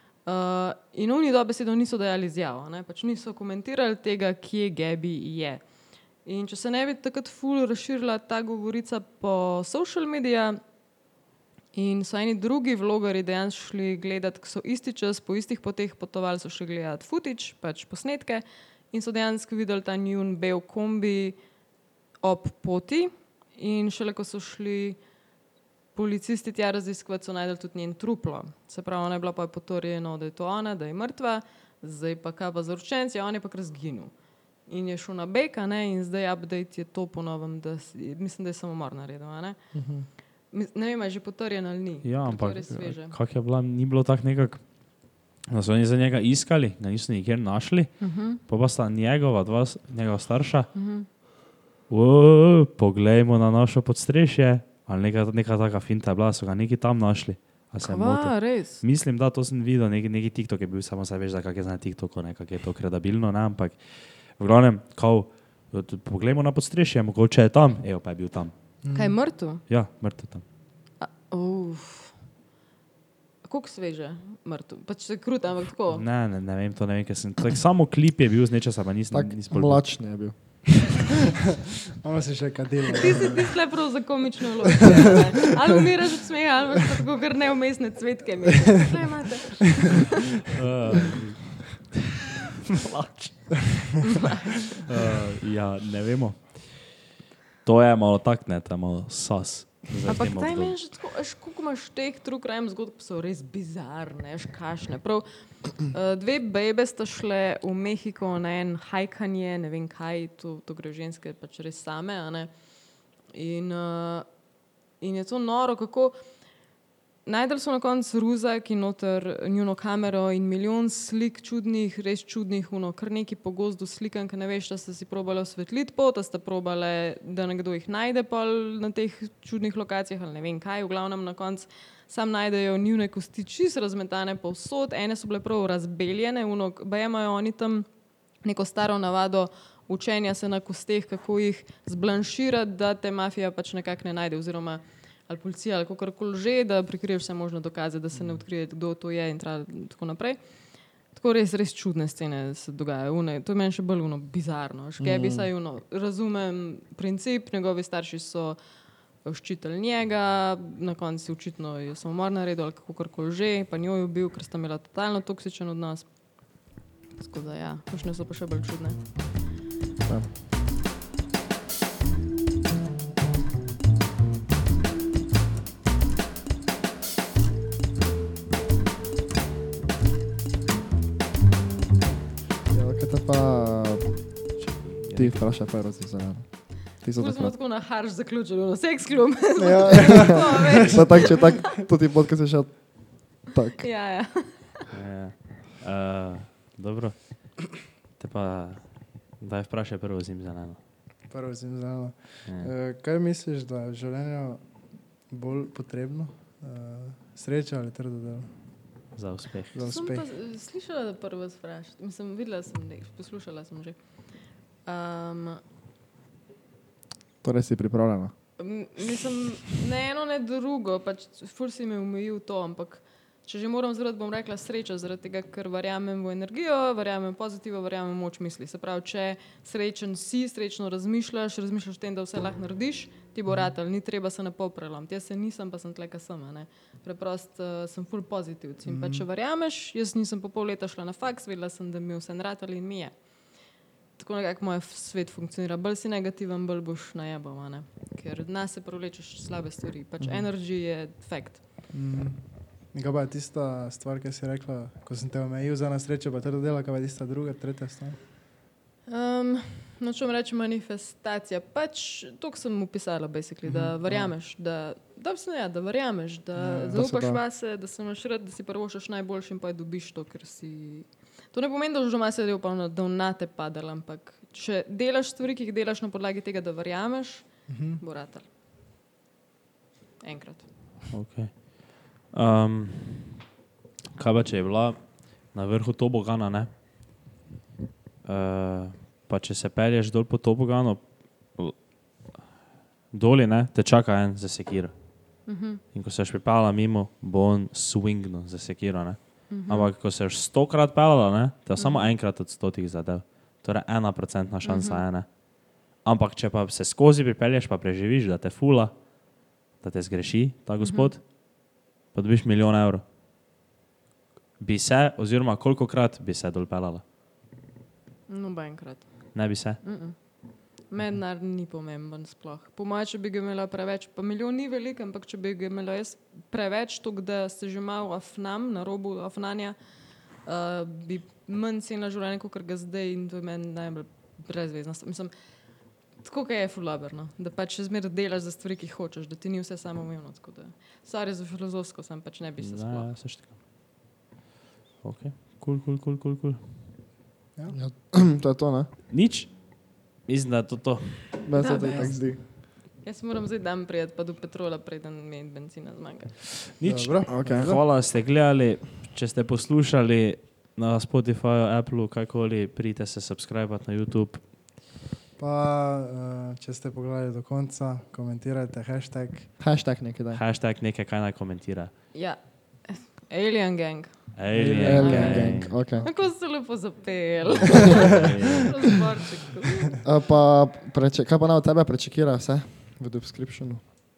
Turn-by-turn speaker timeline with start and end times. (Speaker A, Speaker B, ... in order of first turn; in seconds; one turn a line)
Speaker A: 0.2-10.6
Speaker A: 11.7-21.4
Speaker A: 22.2-25.0
Speaker A: 25.9-34.1
Speaker A: 34.7-43.2
Speaker B: 39.7-40.1
Speaker C: 42.0-50.7
Speaker A: 48.0-48.4
Speaker A: 50.7-51.1
Speaker C: 51.9-68.7
Speaker A: 57.8-58.8
Speaker D: 68.8-69.2
Speaker A: 68.9-69.6
Speaker C: 69.7-70.5
Speaker A: 71.0-72.2
Speaker A: 73.4-76.0
Speaker C: 75.9-80.1
Speaker B: 79.1-81.0
Speaker D: 82.0-83.4
Speaker A: 83.0-90.1
Speaker C: 90.5-92.0
Speaker C: 92.8-93.8
Speaker A: 94.1-94.6
Speaker C: 94.9-97.0
Speaker C: 97.6-100.8
Speaker A: 100.1-116.2
Speaker A: 117.2-169.1
Speaker B: 155.0-155.5
Speaker B: 182.7-184.6
Speaker C: 184.6-185.4
Speaker B: 185.1-187.6
Speaker A: 187.2-191.6
Speaker D: 189.6-190.9
Speaker B: 190.1-193.9
Speaker A: 193.8-194.8
Speaker C: 194.9-197.6
Speaker C: 198.2-200.8
Speaker D: 201.3-209.1
Speaker C: 202.4-202.7
Speaker C: 209.1-209.8
Speaker D: 209.7-210.3
Speaker A: 209.8-215.6
Speaker B: 217.4-218.3
Speaker A: 218.6-243.7
Speaker D: 233.5-233.7
Speaker D: 238.9-239.3
Speaker A: 244.2-251.6
Speaker D: 250.2-250.5
Speaker D: 251.9-258.2
Speaker A: 259.1-278.5
Speaker D: 263.6-264.3
Speaker D: 266.6-267.4
Speaker D: 277.7-278.0
Speaker A: 280.2-281.1
Speaker C: 281.1-283.4
Speaker C: 284.1-286.7
Speaker C: 288.2-292.3
Speaker C: 293.1-313.0
Speaker A: 295.5-295.8
Speaker A: 299.5-299.9
Speaker A: 301.8-302.1
Speaker A: 304.6-305.0
Speaker A: 310.8-311.1
Speaker C: 314.6-317.0
Speaker A: 318.3-343.1
Speaker C: 319.3-319.8
Speaker C: 342.6-343.5
Speaker C: 345.0-346.7
Speaker B: 347.7-348.9
Speaker C: 349.1-351.4
Speaker B: 351.4-352.4
Speaker A: 351.6-356.7
Speaker D: 351.8-352.1
Speaker C: 356.8-364.5
Speaker D: 356.8-357.8
Speaker B: 357.3-357.8
Speaker D: 365.4-369.5
Speaker B: 369.6-370.4
Speaker C: 370.3-371.9
Speaker A: 372.1-380.0
Speaker C: 374.4-375.8
Speaker B: 374.6-376.1
Speaker D: 374.6-375.5
Speaker C: 377.7-378.7
Speaker B: 380.0-383.8